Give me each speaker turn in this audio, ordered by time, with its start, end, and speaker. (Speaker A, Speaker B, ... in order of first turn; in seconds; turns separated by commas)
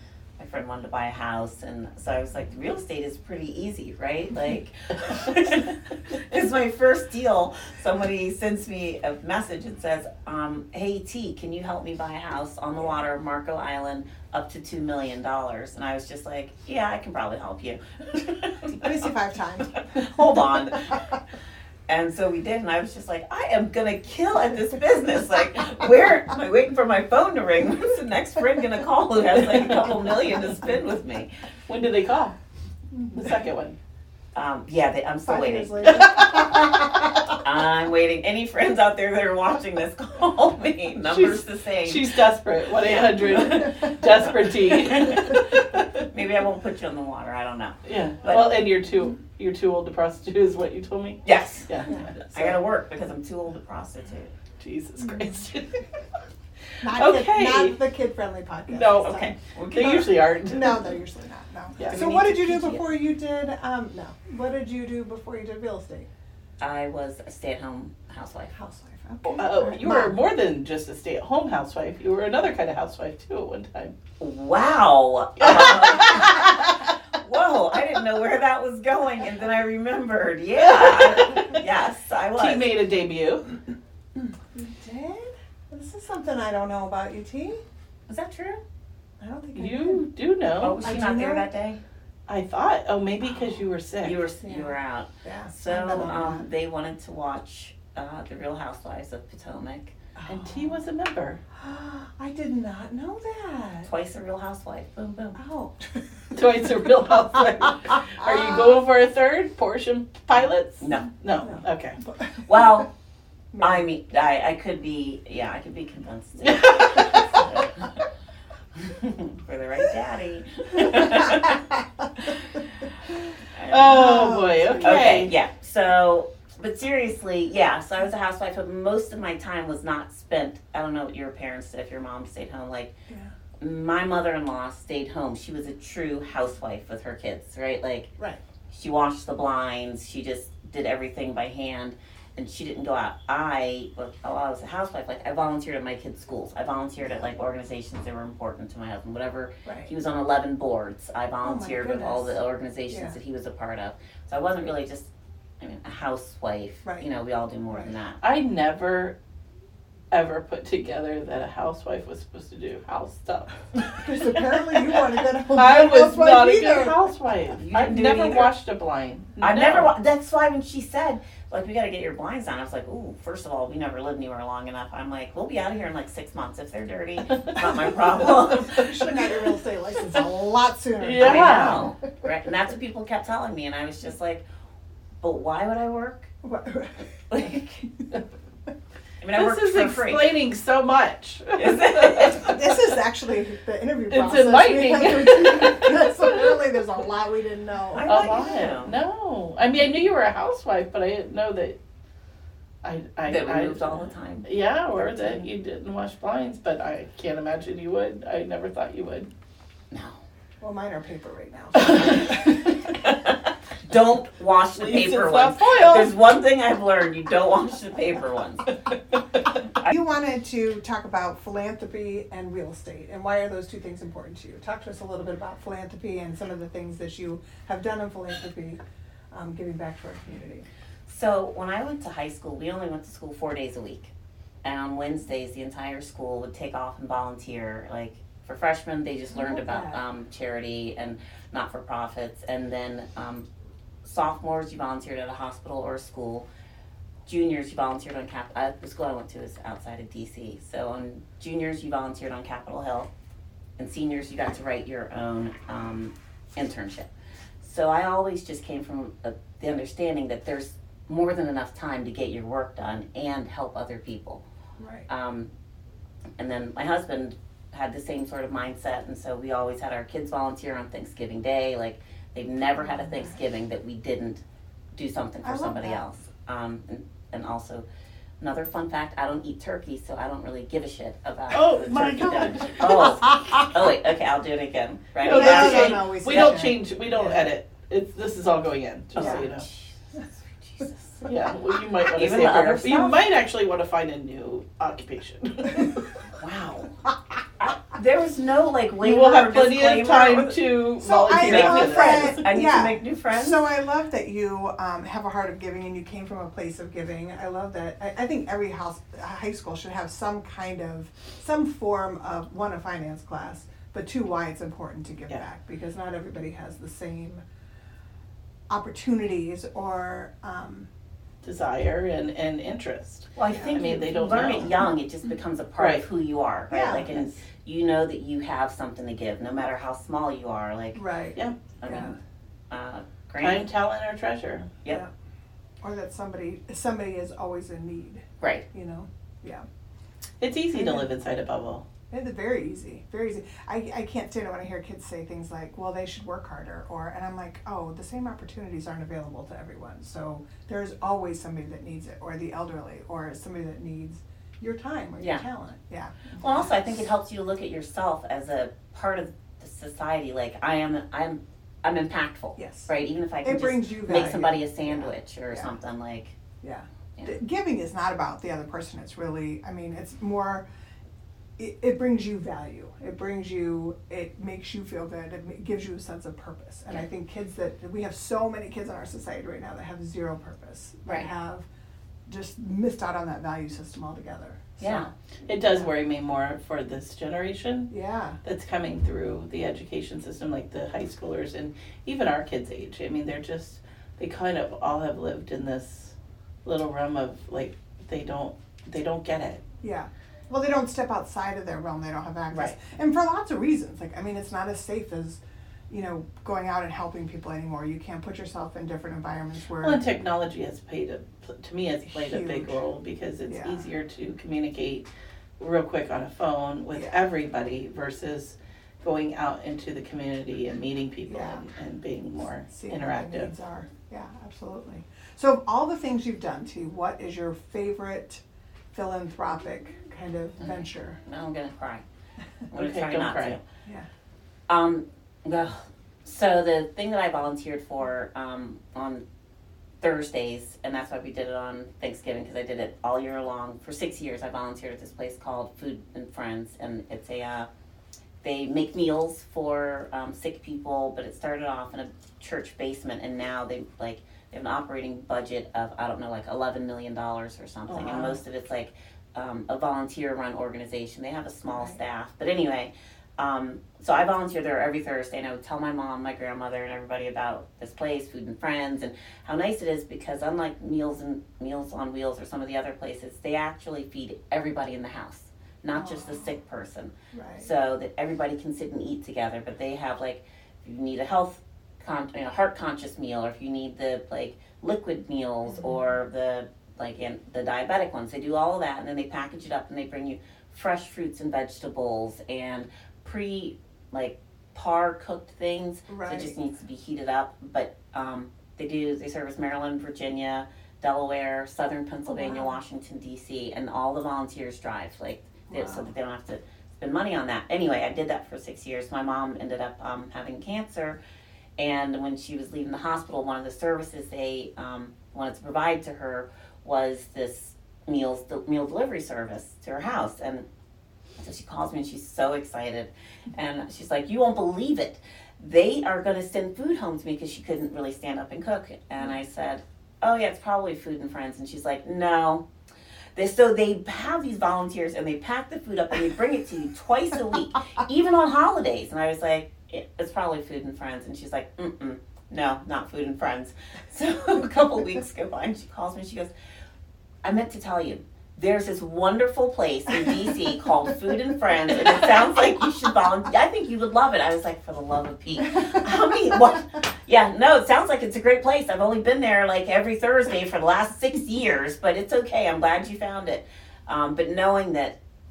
Speaker A: 0.4-18.9, Speaker B: 18.7-19.8, Speaker A: 19.9-21.0, Speaker A: 21.9-31.3, Speaker C: 31.7-32.4, Speaker C: 33.1-33.8, Speaker A: 34.3-36.3, Speaker B: 35.2-37.3, Speaker A: 37.2-42.1, Speaker C: 41.0-46.1, Speaker A: 42.8-43.8, Speaker A: 44.9-45.3, Speaker A: 46.1-48.5, Speaker C: 47.8-52.6, Speaker A: 51.2-54.3, Speaker C: 54.6-55.8, Speaker B: 56.8-66.1, Speaker C: 56.8-57.8, Speaker C: 58.7-60.9, Speaker A: 59.0-60.1, Speaker C: 61.8-62.3, Speaker A: 61.9-62.8, Speaker A: 66.6-68.5, Speaker B: 68.5-70.2, Speaker C: 69.2-73.9, Speaker A: 74.2-82.7, Speaker C: 75.4-76.2, Speaker C: 80.6-81.6, Speaker C: 82.4-83.5, Speaker B: 84.2-87.6, Speaker A: 88.1-88.6, Speaker B: 89.2-90.0, Speaker C: 89.5-90.9, Speaker A: 90.6-91.8, Speaker B: 90.8-91.4, Speaker C: 92.3-94.2, Speaker A: 94.0-99.9, Speaker B: 94.4-96.5, Speaker B: 100.2-100.8, Speaker C: 100.3-101.4, Speaker B: 101.6-103.9, Speaker A: 103.8-105.4, Speaker B: 105.3-106.4, Speaker C: 106.3-112.0, Speaker A: 110.8-111.1, Speaker B: 111.4-112.6, Speaker A: 112.5-112.9, Speaker B: 113.5-113.8, Speaker A: 113.6-118.0, Speaker C: 116.4-117.5, Speaker A: 118.8-121.6, Speaker A: 123.5-132.9, Speaker C: 123.7-125.3, Speaker B: 123.8-125.3, Speaker B: 133.1-133.3, Speaker A: 133.6-138.1, Speaker A: 138.7-158.2, Speaker B: 149.7-149.9, Speaker B: 151.4-152.4, Speaker B: 152.9-153.2, Speaker C: 158.2-159.2, Speaker C: 160.1-164.0, Speaker B: 164.0-167.0, Speaker C: 165.0-169.9, Speaker A: 167.5-168.5, Speaker A: 169.4-178.9, Speaker C: 177.6-177.9, Speaker B: 178.2-181.9, Speaker C: 178.5-179.4, Speaker C: 181.0-181.9, Speaker A: 181.2-184.4, Speaker A: 185.2-186.3, Speaker B: 186.4-187.1, Speaker A: 187.3-187.8, Speaker A: 189.2-190.3, Speaker C: 189.3-192.6, Speaker A: 191.6-192.5, Speaker B: 192.3-198.6, Speaker C: 194.1-196.6, Speaker A: 197.9-198.9, Speaker C: 198.0-201.8, Speaker C: 202.8-209.3, Speaker A: 203.3-204.5, Speaker A: 209.9-210.2, Speaker B: 210.6-212.7, Speaker A: 212.9-218.7, Speaker C: 214.8-216.2, Speaker B: 219.8-228.8, Speaker B: 229.3-230.7, Speaker A: 231.1-234.1, Speaker A: 234.6-243.5, Speaker B: 239.3-240.0, Speaker A: 244.0-246.5, Speaker A: 247.3-253.1, Speaker A: 253.8-257.1, Speaker A: 257.6-264.4, Speaker B: 264.8-265.1, Speaker A: 265.1-265.5, Speaker A: 266.4-274.4, Speaker B: 272.8-273.3, Speaker A: 274.9-277.9, Speaker B: 275.4-276.0, Speaker A: 278.4-286.6, Speaker C: 281.5-283.1, Speaker B: 282.4-283.7, Speaker C: 285.2-289.6, Speaker B: 285.2-287.4, Speaker B: 289.1-289.5, Speaker A: 289.1-291.2, Speaker C: 291.2-296.1, Speaker A: 292.1-293.2, Speaker A: 296.4-296.9, Speaker A: 297.6-300.6, Speaker C: 299.0-302.4, Speaker B: 301.0-317.4, Speaker A: 301.3-303.6, Speaker B: 318.7-320.9, Speaker C: 321.4-324.9, Speaker A: 323.4-331.0, Speaker C: 325.8-326.0, Speaker B: 326.7-327.2, Speaker B: 330.9-332.1, Speaker A: 331.8-332.1, Speaker A: 332.7-333.7, Speaker C: 333.4-334.7, Speaker B: 335.8-339.6, Speaker A: 338.4-338.6, Speaker C: 340.4-341.8, Speaker B: 340.7-341.1, Speaker B: 342.1-356.2, Speaker A: 355.2-355.4, Speaker A: 356.4-366.4, Speaker B: 362.6-362.9, Speaker B: 363.4-365.7, Speaker B: 366.6-370.6, Speaker B: 371.6-381.6, Speaker B: 382.3-385.1, Speaker A: 384.8-385.1, Speaker C: 385.5-387.9, Speaker B: 387.9-388.4, Speaker C: 388.4-399.6, Speaker B: 399.8-410.0, Speaker C: 409.8-423.5, Speaker B: 412.1-412.8, Speaker B: 413.5-413.8, Speaker B: 421.3-421.6, Speaker B: 422.7-428.4, Speaker B: 428.9-431.2, Speaker A: 430.6-432.0, Speaker A: 432.7-433.6, Speaker C: 432.8-433.6, Speaker A: 434.7-439.2, Speaker A: 440.0-447.7, Speaker A: 448.4-511.2, Speaker C: 457.9-458.4, Speaker B: 475.9-476.4, Speaker B: 477.3-477.7, Speaker B: 485.7-486.0, Speaker B: 496.1-496.5, Speaker B: 502.3-502.8, Speaker B: 505.7-506.1, Speaker A: 511.8-520.6, Speaker A: 521.4-532.6, Speaker A: 533.4-546.5, Speaker A: 547.4-565.2